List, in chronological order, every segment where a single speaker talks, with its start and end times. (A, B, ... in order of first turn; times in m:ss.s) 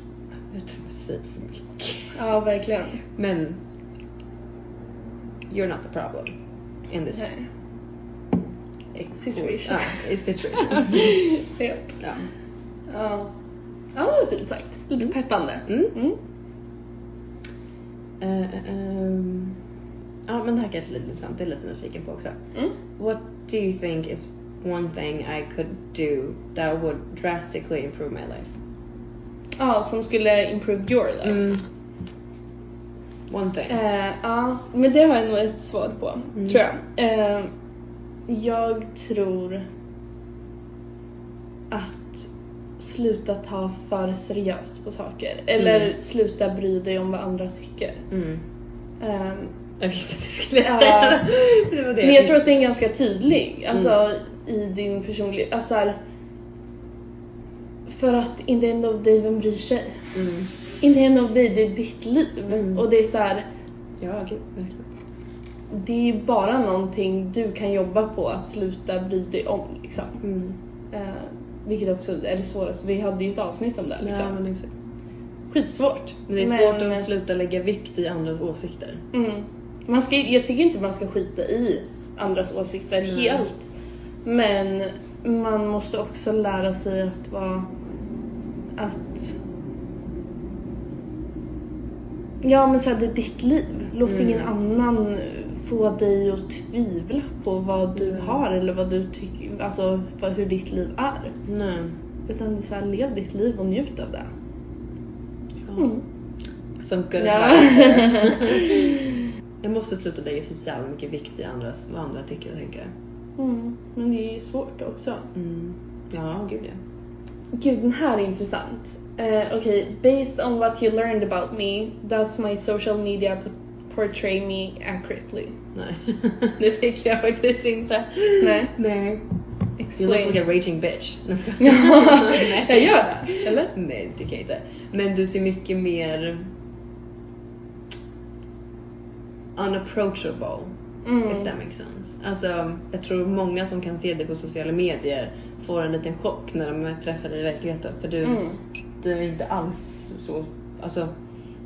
0:00.5-0:02.2 A
0:02.1-0:03.0 B
0:03.2-0:03.6 A
0:05.5-0:06.4 A
0:06.9-0:07.3 A
0:07.1-0:07.5 B
0:08.9-0:11.2 A
0:09.2-0:10.1 B
0:10.6-0:12.0 B
0:12.0-0:12.3 A
0:12.9-0:13.3 B
0:14.0-0:16.2 B
0:15.7-0:15.9 A
0:18.2-0:19.6 A
0:20.3-0:22.4 A
0:23.0-0:28.5 A
0:29.6-0:31.6 B
0:31.2-0:31.6 A
0:33.3-0:33.8 A
0:33.7-0:37.5 B
0:38.3-0:39.7 B
0:41.7-0:48.0 B
0:45.6-0:45.9 A
0:48.1-0:48.4 A
0:49.0-0:49.5 B
0:49.8-0:52.5 A
0:50.6-0:51.3 B
0:52.0-0:56.0 B
0:57.9-1:00.1 B
1:00.1-1:00.5 A
1:00.8-1:03.5 B
1:02.5-1:02.8 A
1:04.0-1:04.9 A
1:05.7-1:10.2 B
1:10.2-1:10.6 A
1:10.9-1:14.4 B
1:14.0-1:14.7 A
1:15.5-1:17.1 B
1:16.3-1:19.0 A
1:19.1-1:23.7 B
1:23.0-1:23.4 A
1:24.2-1:27.7 B
1:28.8-1:29.4 B
1:32.4-1:41.4 B
1:34.0-1:34.5 A
1:38.0-1:38.4 A
1:41.5-1:42.0 A
1:42.3-1:44.3 B
1:45.6-1:45.9 A
1:45.8-1:46.0 B
1:46.8-1:49.0 A
1:47.2-1:49.2 B
1:49.6-1:52.9 A
1:53.4-1:55.3 B
1:55.3-1:56.8 A
1:57.5-2:05.6 B
2:05.8-2:09.2 A
2:08.4-2:08.7 B
2:09.8-2:10.4 B
2:10.0-2:16.5 A
2:11.6-2:13.7 B
2:19.6-2:20.7 A
2:21.0-2:21.5 B
2:21.2-2:28.5 A
2:28.2-2:28.6 B
2:29.0-2:31.1 A